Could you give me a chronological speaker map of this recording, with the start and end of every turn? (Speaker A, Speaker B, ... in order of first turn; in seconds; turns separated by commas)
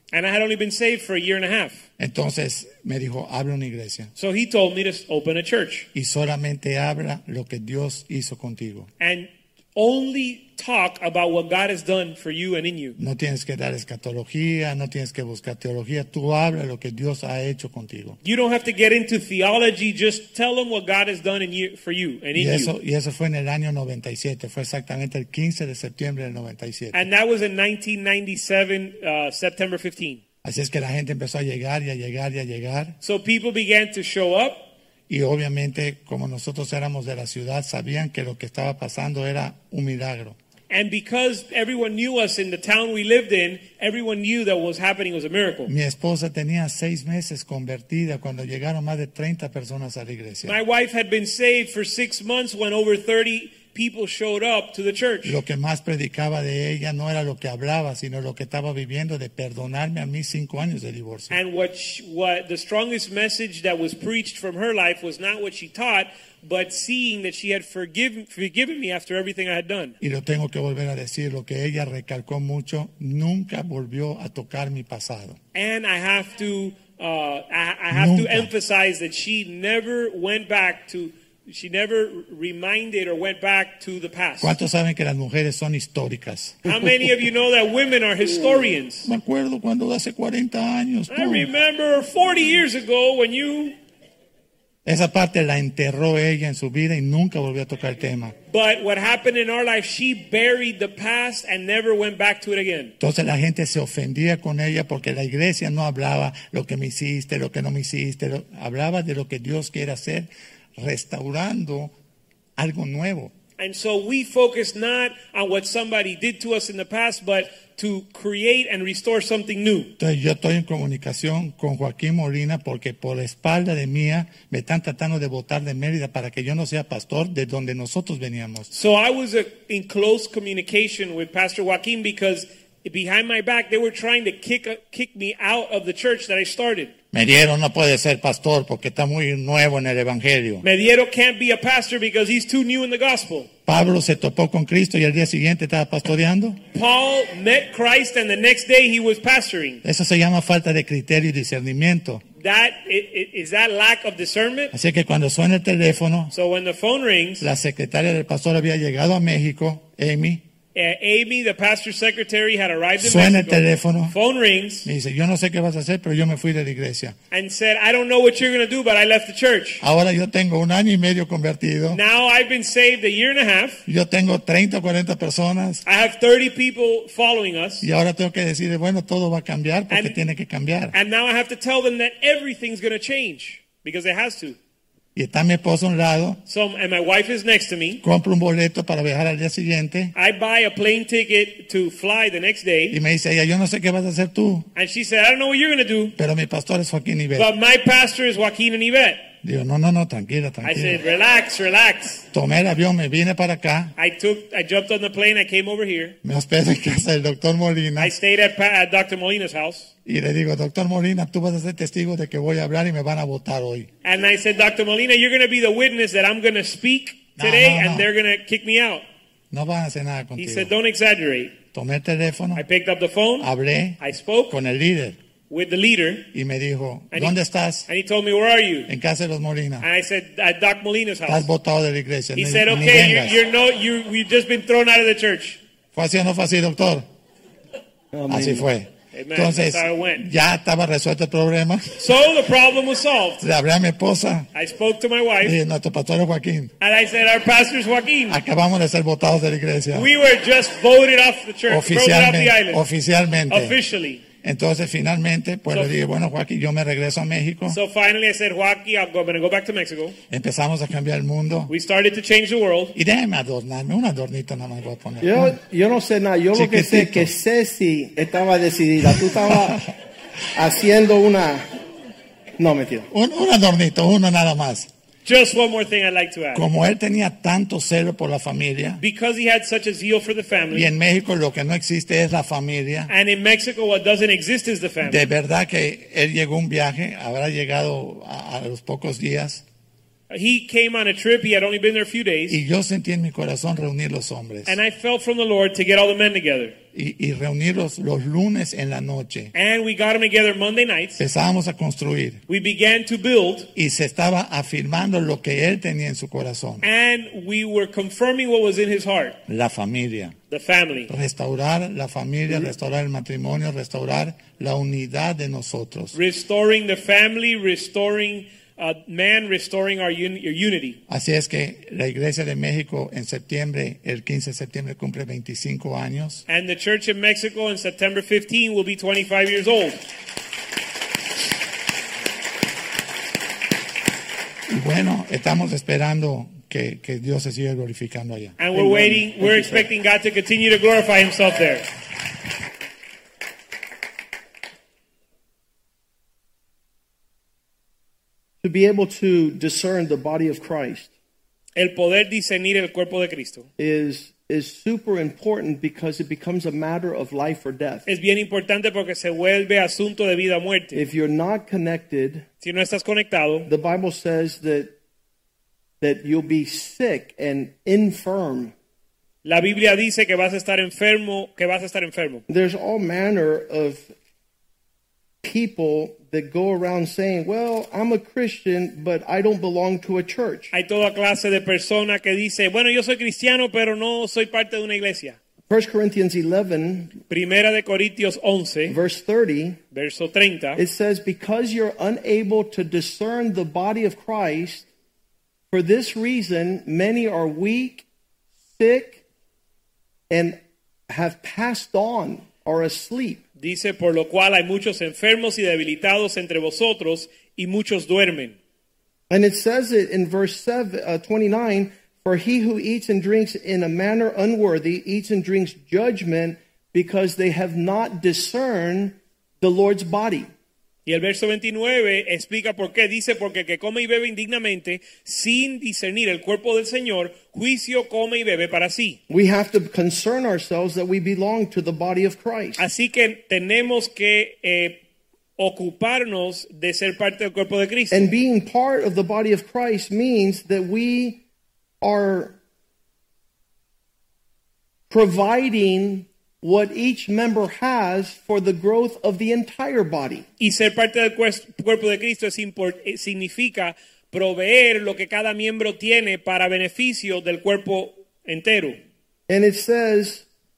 Speaker A: 0.1-1.8, Speaker B: 2.0-4.1, Speaker A: 4.2-5.9, Speaker B: 5.9-8.9, Speaker A: 9.0-13.0, Speaker B: 13.0-18.2, Speaker A: 18.2-22.7, Speaker B: 22.4-27.1, Speaker A: 26.9-30.2, Speaker B: 30.4-33.0, Speaker A: 33.0-34.7, Speaker B: 35.1-40.4, Speaker A: 40.7-45.7, Speaker B: 45.7-50.6, Speaker A: 50.5-55.4, Speaker B: 55.2-61.4, Speaker A: 61.3-70.0, Speaker B: 70.0-75.4, Speaker A: 75.5-84.6, Speaker B: 77.9-78.5, Speaker B: 84.4-86.9, Speaker A: 86.7-89.1, Speaker B: 89.0-91.5, Speaker A: 91.1-93.8, Speaker B: 94.8-98.3, Speaker A: 98.5-103.0, Speaker B: 103.0-111.9, Speaker B: 112.6-113.3, Speaker A: 113.6-119.9, Speaker B: 120.0-128.7, Speaker A: 128.7-136.9, Speaker B: 137.1-140.6, Speaker A: 140.6-143.5, Speaker B: 143.7-146.6, Speaker A: 146.7-149.8, Speaker B: 149.8-152.2, Speaker A: 152.4-154.7, Speaker B: 154.7-156.3, Speaker A: 156.3-157.5, Speaker B: 157.4-160.4, Speaker A: 160.8-164.9, Speaker B: 163.0-164.2, Speaker B: 164.8-167.2, Speaker A: 167.3-169.8, Speaker B: 169.8-172.0, Speaker A: 171.9-173.8, Speaker B: 173.9-175.8, Speaker A: 175.8-177.9, Speaker B: 177.8-180.9, Speaker A: 179.9-180.2, Speaker A: 180.9-184.6, Speaker B: 185.2-186.4, Speaker A: 186.5-188.0, Speaker B: 188.0-190.1, Speaker A: 190.2-193.0, Speaker B: 192.9-194.7, Speaker A: 194.8-196.2, Speaker B: 196.2-197.5, Speaker A: 197.4-199.3, Speaker B: 199.4-201.0, Speaker A: 200.6-202.2, Speaker B: 202.3-203.9, Speaker A: 204.0-206.2, Speaker B: 206.2-208.2, Speaker A: 208.0-209.9, Speaker B: 210.1-213.9, Speaker A: 214.0-219.0, Speaker B: 217.4-218.1, Speaker B: 219.5-220.7, Speaker A: 220.4-221.6, Speaker B: 221.7-222.7, Speaker A: 222.6-223.5, Speaker B: 223.4-225.2, Speaker A: 224.0-224.5, Speaker A: 225.5-226.3, Speaker B: 226.3-227.9, Speaker A: 227.9-228.9, Speaker B: 228.9-229.9, Speaker A: 229.8-231.5, Speaker B: 231.3-233.4, Speaker A: 232.4-235.6, Speaker B: 235.9-237.1, Speaker C: 238.1-238.7, Speaker B: 238.3-242.0, Speaker A: 239.1-240.2, Speaker A: 242.0-243.4, Speaker B: 243.4-244.5, Speaker A: 244.5-245.6, Speaker B: 245.4-246.7, Speaker A: 246.8-248.4, Speaker B: 248.3-250.1, Speaker A: 249.9-252.8, Speaker B: 251.7-253.8, Speaker A: 253.5-254.2, Speaker B: 254.4-257.8, Speaker A: 257.7-260.2, Speaker B: 260.3-261.7, Speaker A: 261.7-263.0, Speaker B: 262.9-265.6, Speaker C: 265.2-269.9, Speaker B: 266.5-267.3, Speaker C: 270.5-271.6, Speaker C: 272.6-273.1, Speaker B: 273.1-274.9, Speaker A: 275.2-276.6, Speaker B: 276.6-279.0, Speaker A: 279.0-280.9, Speaker B: 280.7-283.1, Speaker A: 283.1-285.2, Speaker B: 285.0-289.6, Speaker A: 290.3-292.6, Speaker B: 292.5-294.8, Speaker A: 294.7-296.8, Speaker B: 296.9-299.5, Speaker A: 299.5-301.2, Speaker B: 301.2-302.4, Speaker A: 302.5-303.7, Speaker B: 303.8-306.8, Speaker A: 306.8-309.4, Speaker B: 309.5-310.4, Speaker A: 310.5-311.1, Speaker B: 311.1-316.1, Speaker A: 316.1-321.0, Speaker B: 321.1-326.4, Speaker A: 326.5-330.0, Speaker B: 334.7-338.6, Speaker A: 338.6-341.9, Speaker C: 338.7-339.9, Speaker C: 348.6-351.1, Speaker A: 351.8-353.7, Speaker C: 353.8-358.1, Speaker A: 358.1-361.0, Speaker C: 360.9-362.5, Speaker A: 362.6-363.7, Speaker C: 363.7-364.9, Speaker C: 366.0-368.7, Speaker A: 369.4-372.4, Speaker C: 372.5-374.1, Speaker C: 375.4-380.7, Speaker A: 380.7-385.4, Speaker C: 385.7-387.2, Speaker A: 387.3-389.0, Speaker C: 388.9-389.8, Speaker A: 389.9-390.8, Speaker C: 390.8-394.9, Speaker C: 395.7-398.1, Speaker C: 398.8-399.2, Speaker C: 400.3-403.4, Speaker A: 403.6-408.6, Speaker C: 409.3-420.5, Speaker A: 421.1-429.2, Speaker C: 429.3-432.8, Speaker A: 432.8-435.0, Speaker A: 435.6-438.3, Speaker C: 438.1-441.4, Speaker C: 442.0-442.6, Speaker C: 445.1-450.5, Speaker A: 450.6-459.0, Speaker C: 459.5-460.5